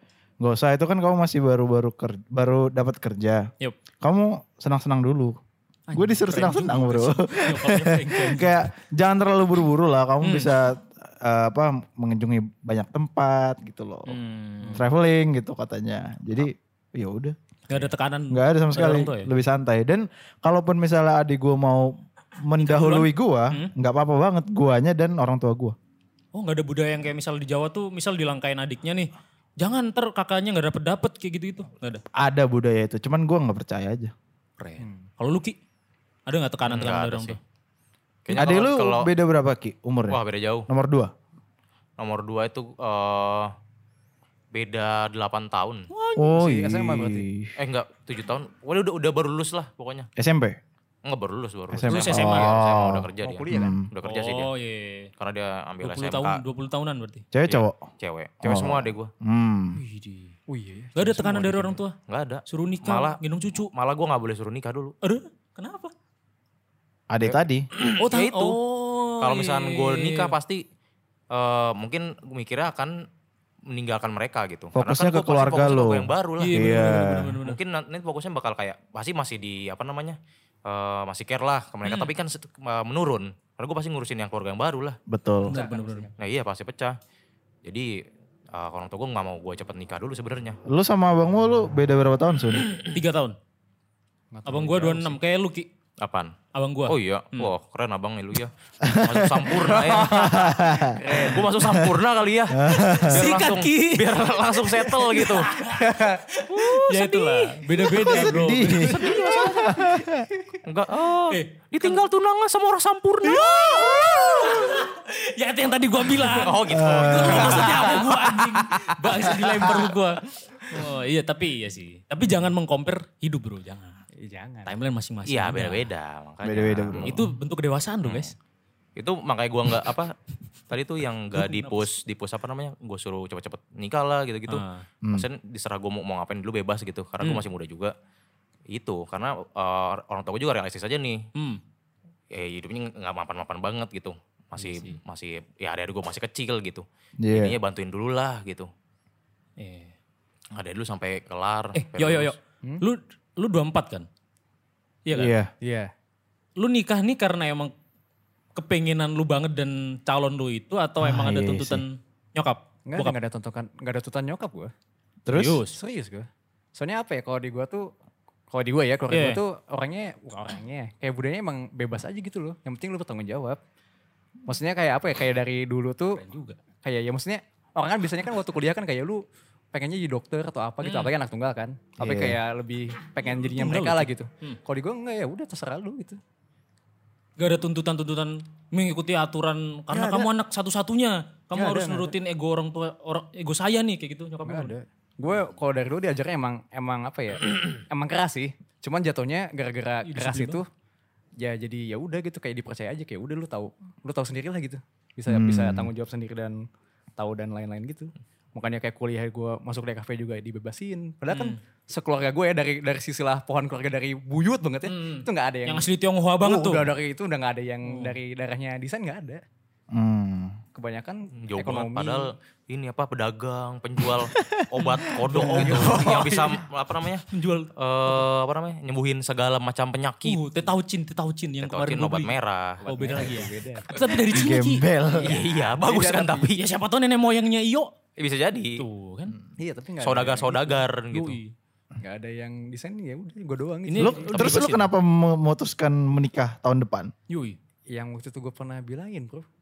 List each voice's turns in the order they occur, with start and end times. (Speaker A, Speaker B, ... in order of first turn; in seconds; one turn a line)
Speaker A: 0.4-3.5
Speaker A: 4.0-5.4
Speaker B: 5.9-8.6
Speaker A: 5.9-14.2
Speaker B: 10.2-10.5
Speaker B: 14.1-14.8
Speaker A: 14.7-25.7
Speaker B: 17.7-19.3
Speaker B: 22.6-23.7
Speaker B: 26.3-32.0
Speaker A: 32.1-34.1
Speaker B: 34.6-35.6
Speaker C: 34.8-35.0
Speaker B: 36.3-37.4
Speaker D: 36.6-37.4
Speaker D: 38.2-39.1
Speaker A: 38.3-41.1
Speaker D: 40.1-40.7
Speaker D: 42.0-43.5
Speaker D: 44.5-45.9
Speaker C: 46.0-47.3
Speaker A: 46.1-47.5
Speaker D: 47.6-50.1
Speaker A: 50.2-50.6
Speaker D: 51.0-54.5
Speaker A: 51.7-53.9
Speaker B: 51.9-52.5
Speaker C: 53.2-53.8
Speaker B: 54.0-55.1
Speaker D: 55.2-56.4
Speaker B: 55.8-57.2
Speaker A: 57.3-57.8
Speaker D: 57.5-59.1
Speaker A: 58.4-59.8
Speaker B: 59.7-60.4
Speaker C: 60.5-61.8
Speaker B: 61.0-62.0
Speaker D: 62.1-64.9
Speaker B: 62.5-63.7
Speaker B: 65.0-65.9
Speaker A: 67.1-67.7
Speaker D: 67.7-68.6
Speaker B: 68.0-70.3
Speaker D: 69.2-70.6
Speaker D: 71.3-73.0
Speaker D: 73.7-85.0
Speaker A: 74.7-77.4
Speaker B: 76.4-77.6
Speaker B: 81.8-82.1
Speaker A: 85.1-85.6
Speaker C: 85.4-86.1
Speaker B: 85.5-86.1
Speaker D: 86.2-87.0
Speaker D: 87.6-88.0
Speaker D: 88.5-90.6
Speaker A: 90.7-92.7
Speaker B: 92.8-93.3
Speaker C: 94.3-95.2
Speaker B: 94.4-95.7
Speaker D: 96.0-96.3
Speaker B: 96.5-97.5
Speaker D: 96.9-105.5
Speaker A: 98.8-101.0
Speaker C: 100.0-101.7
Speaker A: 101.6-101.9
Speaker A: 102.5-103.3
Speaker B: 103.0-109.3
Speaker C: 105.7-106.2
Speaker D: 106.7-107.5
Speaker A: 107.9-110.3
Speaker D: 108.2-109.8
Speaker D: 110.6-114.7
Speaker B: 111.3-112.0
Speaker B: 113.2-124.0
Speaker D: 116.2-119.3
Speaker A: 116.7-118.0
Speaker A: 119.4-119.9
Speaker C: 124.2-124.7
Speaker B: 124.6-125.9
Speaker D: 125.3-127.3
Speaker A: 126.4-127.3
Speaker B: 127.0-128.3
Speaker D: 128.0-128.3
Speaker D: 129.0-130.2
Speaker D: 130.7-137.9
Speaker B: 131.3-131.9
Speaker B: 134.5-134.8
Speaker D: 138.7-141.2
Speaker B: 141.3-141.6
Speaker D: 142.3-148.7
Speaker B: 144.6-145.0
Speaker A: 147.2-147.6
Speaker B: 149.6-149.9
Speaker D: 150.5-152.3
Speaker B: 151.7-154.1
Speaker B: 155.1-155.3
Speaker A: 155.1-155.5
Speaker C: 155.6-155.9
Speaker B: 156.6-157.7
Speaker B: 158.5-163.2
Speaker A: 161.0-161.8
Speaker C: 162.9-164.7
Speaker A: 165.2-165.6
Speaker B: 165.3-165.8
Speaker C: 165.7-167.9
Speaker C: 168.5-173.6
Speaker B: 169.1-169.4
Speaker C: 174.5-176.2
Speaker B: 176.1-176.6
Speaker C: 176.8-186.2
Speaker B: 180.8-181.1
Speaker A: 182.0-182.4
Speaker B: 183.3-184.6
Speaker B: 187.4-194.7
Speaker C: 189.9-190.3
Speaker C: 191.5-192.1
Speaker C: 194.4-200.7
Speaker B: 200.0-200.6
Speaker C: 201.4-206.6
Speaker A: 205.3-205.9
Speaker C: 207.2-215.9
Speaker B: 211.3-211.6
Speaker B: 214.9-216.9
Speaker C: 216.4-219.4
Speaker B: 217.8-218.2
Speaker A: 219.9-220.6
Speaker C: 220.7-222.3
Speaker D: 221.4-230.4
Speaker B: 224.8-226.6
Speaker C: 225.3-226.4
Speaker B: 227.3-228.2
Speaker B: 230.2-234.8
Speaker D: 231.6-232.8
Speaker C: 232.8-234.0
Speaker A: 234.3-235.4
Speaker C: 235.1-236.5
Speaker D: 235.2-236.6
Speaker B: 236.5-237.9
Speaker D: 238.2-238.8
Speaker B: 238.8-239.4
Speaker C: 239.6-240.8
Speaker D: 240.0-241.4
Speaker B: 241.1-241.5
Speaker C: 242.0-244.3
Speaker B: 243.8-244.9
Speaker A: 243.9-247.1
Speaker D: 244.3-244.6
Speaker B: 247.3-247.6
Speaker C: 247.9-249.4